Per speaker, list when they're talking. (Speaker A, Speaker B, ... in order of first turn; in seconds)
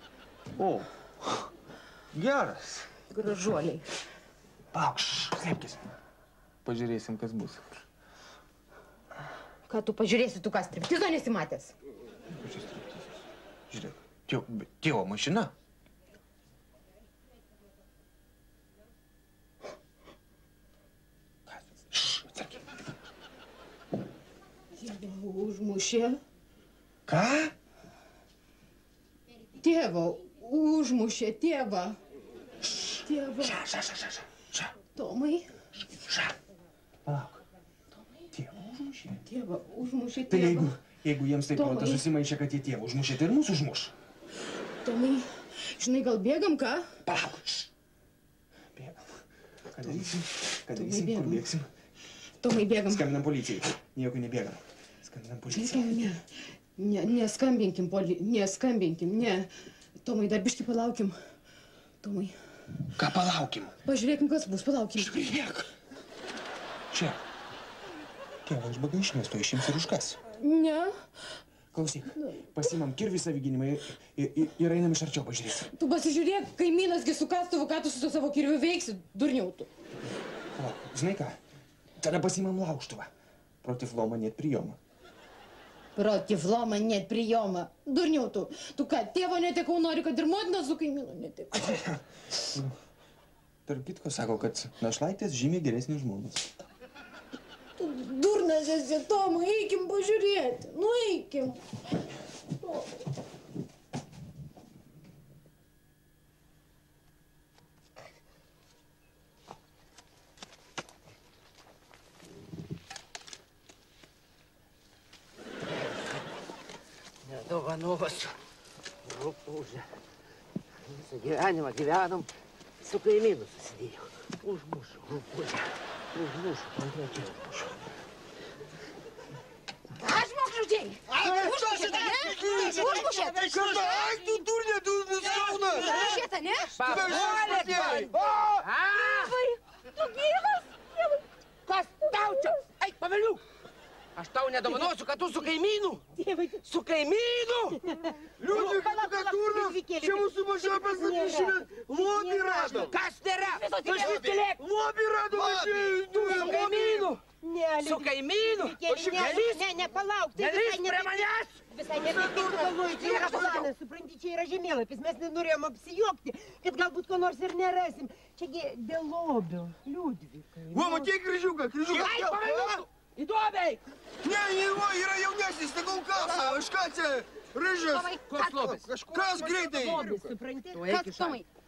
Speaker A: 0.6-0.9, 2.1-2.9, 4.7-5.8, 6.6-7.8, 12.3-13.0, 13.7-15.5, 21.9-22.6, 27.1-27.5, 33.4-34.7, 37.0-37.4, 38.3-39.2, 40.3-43.9, 47.0-47.7, 48.7-49.2, 49.7-51.7, 52.9-56.0, 63.0-63.7, 65.0-65.7, 66.9-67.2, 68.4-70.2, 71.7-75.7, 80.5-81.4, 82.0-83.1, 83.6-84.8, 91.7-92.0, 93.7-96.5, 131.2-134.4, 135.2-135.8, 137.0-138.5, 148.6-149.3, 154.0-154.5, 155.3-155.9, 178.7-179.5
Speaker B: 3.1-3.8, 9.7-11.7, 24.8-26.2, 29.6-31.9, 33.0-33.6, 34.9-35.5, 39.2-40.7, 41.5-42.0, 44.8-46.9, 50.7-51.4, 52.4-53.1, 55.5-56.2, 56.8-59.5, 60.0-61.1, 62.0-62.3, 63.9-65.2, 70.4-70.9, 75.7-79.7, 86.0-91.8, 97.8-101.6, 102.6-102.8, 130.0-133.4, 135.6-136.9, 138.9-140.7, 180.9-181.4
Speaker C: 117.2-118.3, 119.0-119.8, 120.9-122.3, 122.8-127.8, 135.3-136.2, 136.8-139.3, 141.7-143.4, 144.2-146.0, 146.6-147.8, 148.5-148.8, 152.9-154.6, 156.1-157.2, 157.8-159.7, 160.3-161.6, 162.8-163.7, 171.9-173.8, 177.9-178.9, 180.7-181.4
Speaker D: 132.5-133.3, 135.9-136.2, 142.1-142.4, 146.2-146.6, 147.8-152.9, 153.5-154.3, 156.2-171.1, 179.7-181.4
Speaker E: 133.5-134.2, 135.2-136.1, 136.9-138.1, 148.5-149.1, 150.0-152.9, 155.2-156.7, 161.9-163.5, 170.7-172.3, 174.2-178.1, 179.0-180.2